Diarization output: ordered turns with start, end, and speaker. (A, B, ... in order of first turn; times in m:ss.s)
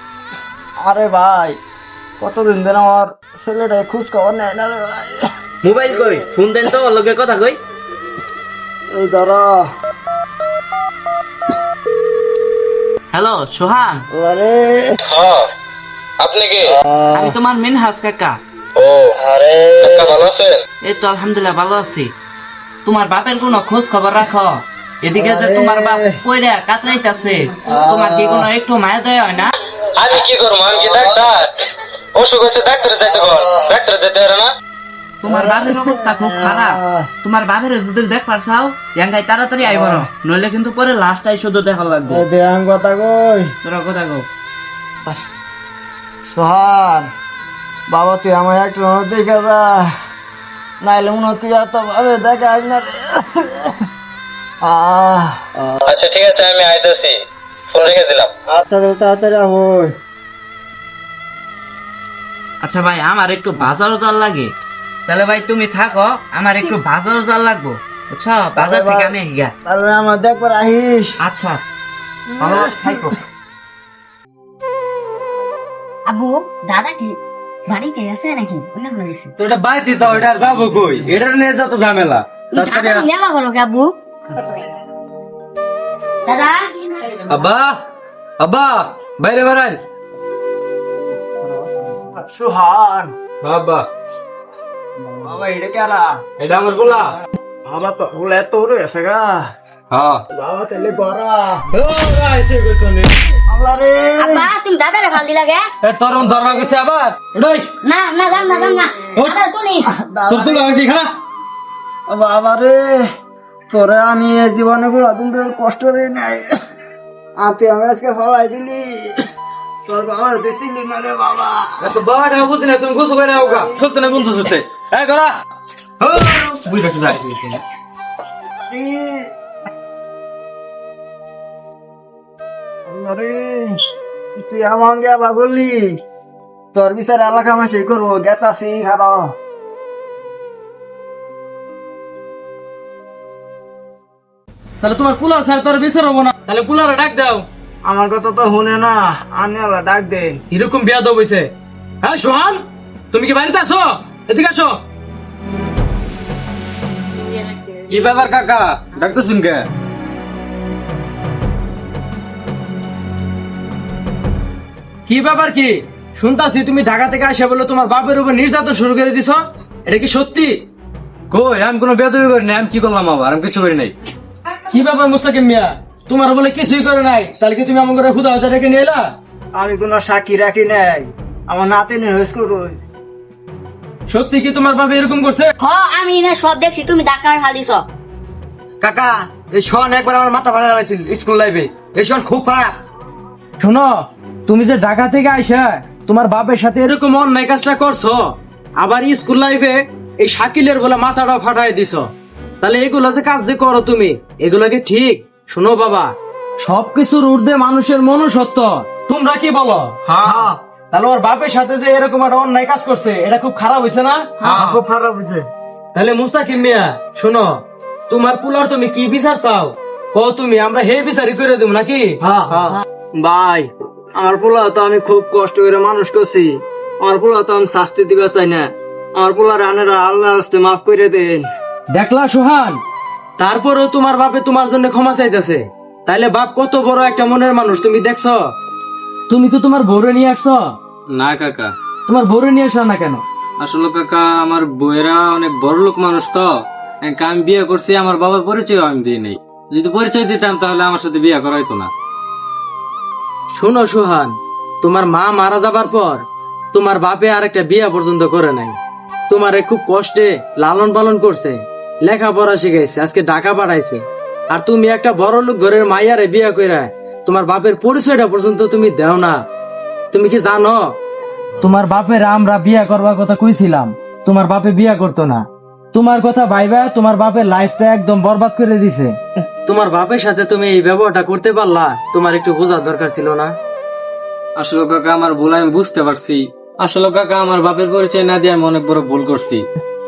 0:00.8-0:01.6 A
0:02.2-0:05.2 A
0:05.6-0:07.6 B
0:05.9-0:06.6 A
0:08.9-0:09.7 A
0:13.1-0:14.0 B
0:14.1-0:15.0 A
0:15.1-0:15.4 C
0:16.2-0:16.6 C
0:16.7-0:17.4 A
0:17.1-0:18.3 B
0:18.8-0:19.1 C
0:19.2-0:20.2 A
0:19.8-0:20.6 C
0:20.8-0:22.1 B
0:22.8-0:29.5 B
0:25.1-0:26.2 A
0:27.6-0:28.5 A
0:30.0-0:31.4 C
0:30.8-0:31.1 A
0:32.1-0:34.5 C
0:33.0-0:33.8 A
0:35.2-0:42.2 B
0:35.2-0:37.1 A
0:39.6-0:40.1 A
0:42.1-0:43.5 A
0:43.6-0:44.3 B
0:46.3-0:47.1 A
0:47.9-0:49.9 A
0:50.8-0:53.8 A
0:54.6-0:55.8 A
0:55.9-0:57.2 C
0:57.7-0:58.3 C
0:58.5-0:59.9 A
1:02.6-1:04.5 B
1:05.1-1:09.5 B
1:08.5-1:09.1 A
1:09.6-1:11.2 A
1:11.2-1:11.6 B
1:12.4-1:13.1 B
1:16.1-1:19.3 D
1:19.4-1:23.0 E
1:22.5-1:24.6 D
1:26.3-1:26.7 D
1:27.3-1:27.8 E
1:28.4-1:29.8 E
1:31.5-1:33.1 A
1:33.4-1:33.8 E
1:35.0-1:36.2 A
1:36.4-1:37.1 E
1:37.6-1:39.5 A
1:39.9-1:40.2 E
1:40.3-1:41.7 A
1:41.7-1:43.1 E
1:43.5-1:44.5 A
1:44.2-1:45.6 D
1:45.8-1:47.7 E
1:46.4-1:46.7 A
1:47.8-1:49.9 D
1:48.3-1:49.3 A
1:49.8-1:50.8 A
1:50.3-1:51.1 E
1:52.1-1:53.0 A
1:53.7-1:56.5 A
1:57.4-1:59.1 A
1:59.8-2:01.7 A
2:01.8-2:05.3 E
2:03.4-2:03.9 A
2:06.0-2:07.6 E
2:08.6-2:09.3 A
2:12.9-2:13.8 A
2:14.3-2:16.0 A
2:16.7-2:19.3 A
2:24.8-2:27.4 E
2:27.8-2:30.4 A
2:30.5-2:31.5 E
2:32.0-2:34.8 E
2:37.9-2:38.6 E
2:45.1-2:50.5 E
2:51.5-2:53.7 E
2:54.7-2:59.0 E
2:59.5-3:02.8 A
3:04.1-3:05.5 E
3:05.6-3:07.8 D
3:08.8-3:12.7 A
3:13.6-3:34.8 E
3:30.1-3:30.4 B
3:30.2-3:30.6 A
3:34.4-3:35.5 A
3:35.9-3:42.1 E
3:42.2-3:51.5 A
3:51.9-3:52.8 E
3:53.4-3:58.4 E
3:59.3-4:00.7 E
4:01.2-4:01.7 F
4:02.1-4:03.2 E
4:03.6-4:06.5 F
4:07.0-4:11.9 F
4:13.5-4:18.8 E
4:19.3-4:29.4 E
4:30.1-4:30.9 E
4:31.6-4:43.5 E
4:44.8-4:46.3 F
4:47.0-4:49.4 F